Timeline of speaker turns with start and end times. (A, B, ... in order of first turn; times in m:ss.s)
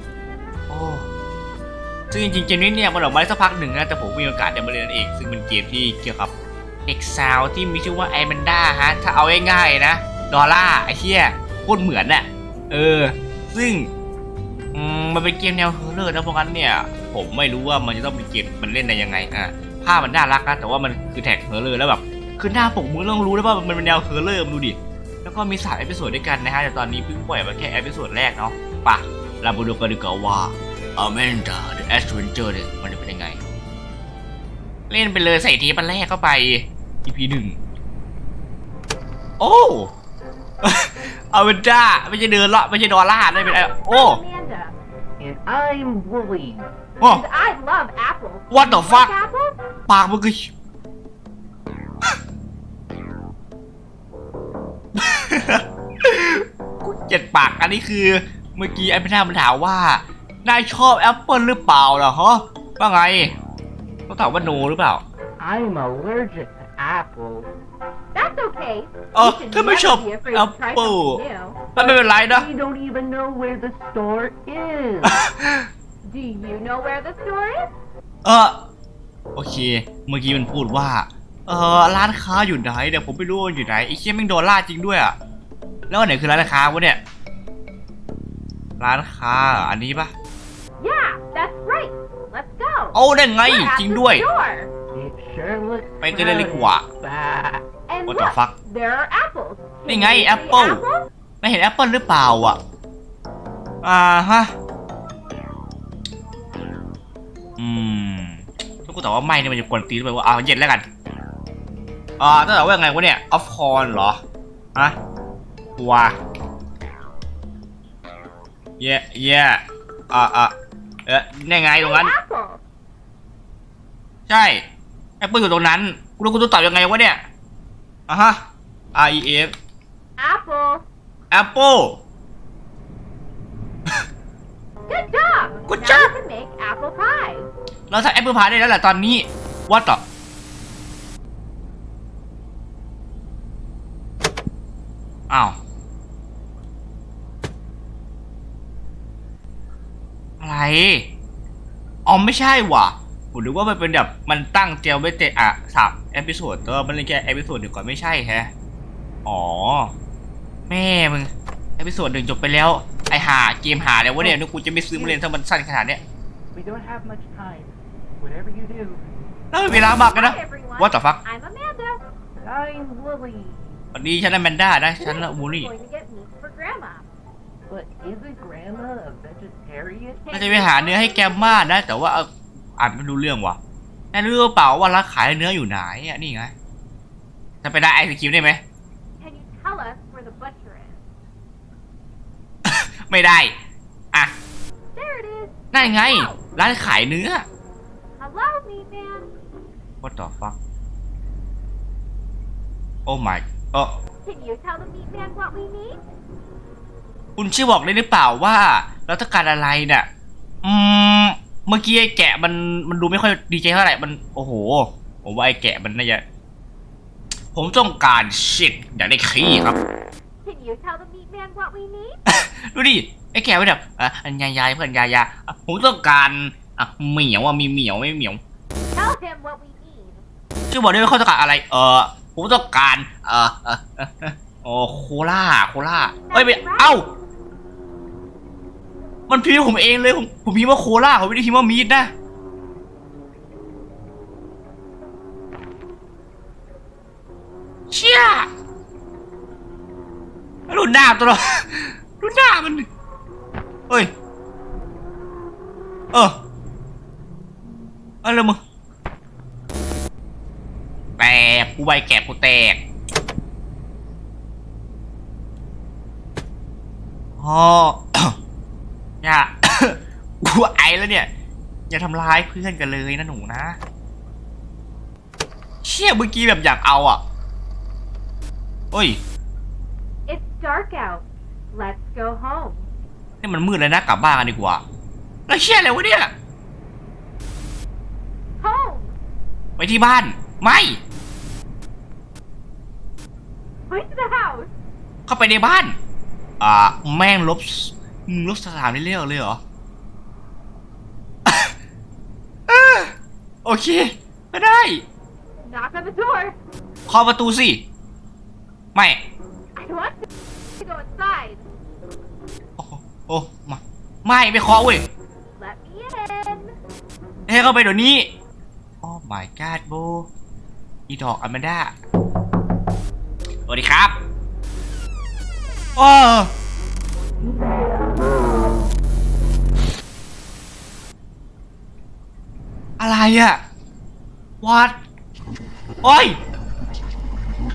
0:00.7-0:01.1 A
0:02.1-0:06.3 A
0:06.8-0:13.9 A
0:14.7-0:33.4 A
0:34.9-0:37.6 A
0:39.4-0:39.9 A
0:40.6-0:44.2 A
0:43.3-0:44.8 B
0:45.2-0:46.7 C
0:47.0-0:49.6 B
0:48.5-0:49.1 A
0:49.9-0:50.5 A
0:54.9-1:03.3 A
1:04.1-1:05.0 A
1:05.4-1:07.5 C
1:08.1-1:11.6 B
1:09.1-1:11.2 A
1:11.7-1:15.1 C
1:11.8-1:12.5 A
1:15.0-1:15.7 A
1:16.0-1:17.7 B
1:18.2-1:18.6 A
1:19.3-1:25.2 A
1:25.9-1:27.0 A
1:28.8-1:30.1 A
1:30.8-1:34.7 B
1:32.9-1:34.2 A
1:34.9-1:37.6 C
1:36.0-1:36.8 A
1:37.9-1:41.1 B
1:38.1-1:38.5 A
1:39.9-1:40.8 A
1:41.4-1:42.6 A
1:43.8-1:44.5 A
1:47.6-1:50.8 A
1:52.2-1:54.2 A
1:55.8-1:56.2 A
1:58.8-2:00.5 A
2:01.0-2:02.1 A
2:01.8-2:02.6 B
2:04.3-2:04.6 A
2:05.2-2:07.2 A
2:08.1-2:08.4 A
2:08.9-2:09.5 A
2:10.2-2:10.8 B
2:11.3-2:12.0 A
2:14.9-2:17.5 B
2:15.7-2:16.1 A
2:17.9-2:20.0 A
2:25.3-2:25.6 A
2:30.4-2:31.1 A
2:32.0-2:38.5 A
2:39.2-2:39.9 A
2:40.7-2:46.0 A
2:44.9-2:45.2 C
2:46.5-2:49.1 C
2:49.5-2:51.2 A
2:49.7-2:52.0 B
2:52.4-2:53.8 C
2:53.9-2:55.7 A
2:55.0-2:57.1 B
2:57.7-3:00.3 C
3:00.2-3:01.9 B
3:00.3-3:03.6 A
3:04.1-3:06.5 A
3:07.6-3:08.6 A
3:09.2-3:11.0 B
3:12.6-3:13.5 A
3:14.9-3:16.4 B
3:15.7-3:17.4 A
3:18.2-3:19.3 B
3:20.0-3:20.6 A
3:23.0-3:24.0 A
3:24.2-3:26.0 B
3:27.4-3:30.1 A
3:30.6-3:36.2 A
3:37.5-3:39.8 A
3:40.4-3:42.2 B
3:42.3-3:48.4 A
3:48.9-3:50.2 B
3:50.7-3:57.1 A
3:56.3-3:57.0 B
3:59.3-4:02.1 A
4:07.9-4:08.5 A
4:10.7-4:12.9 A
4:16.1-4:16.4 A
4:18.2-4:18.6 A
4:21.2-4:22.8 A
4:27.4-4:28.4 A
4:29.2-4:31.3 A
4:31.9-4:33.8 A
4:35.8-4:37.2 A
4:38.9-4:39.2 A
4:40.3-4:42.9 B
4:43.4-4:44.8 A
4:45.5-4:46.3 A
4:48.6-4:49.2 B
4:49.8-4:51.0 A
4:53.9-4:54.7 B
4:55.3-4:56.0 A
4:56.6-4:59.6 A
5:01.4-5:01.7 A
5:02.7-5:05.0 A
5:05.6-5:06.6 B
5:07.1-5:07.8 A
5:08.9-5:09.2 A
5:09.8-5:10.2 B
5:10.8-5:11.6 B
5:12.8-5:15.0 A
5:15.6-5:16.7 B
5:17.5-5:18.3 A
5:19.0-5:20.3 A
5:21.1-5:21.9 A
5:23.7-5:24.2 A
5:26.0-5:26.5 A
5:33.0-5:33.6 A
5:34.6-5:35.0 A
5:36.0-5:36.4 A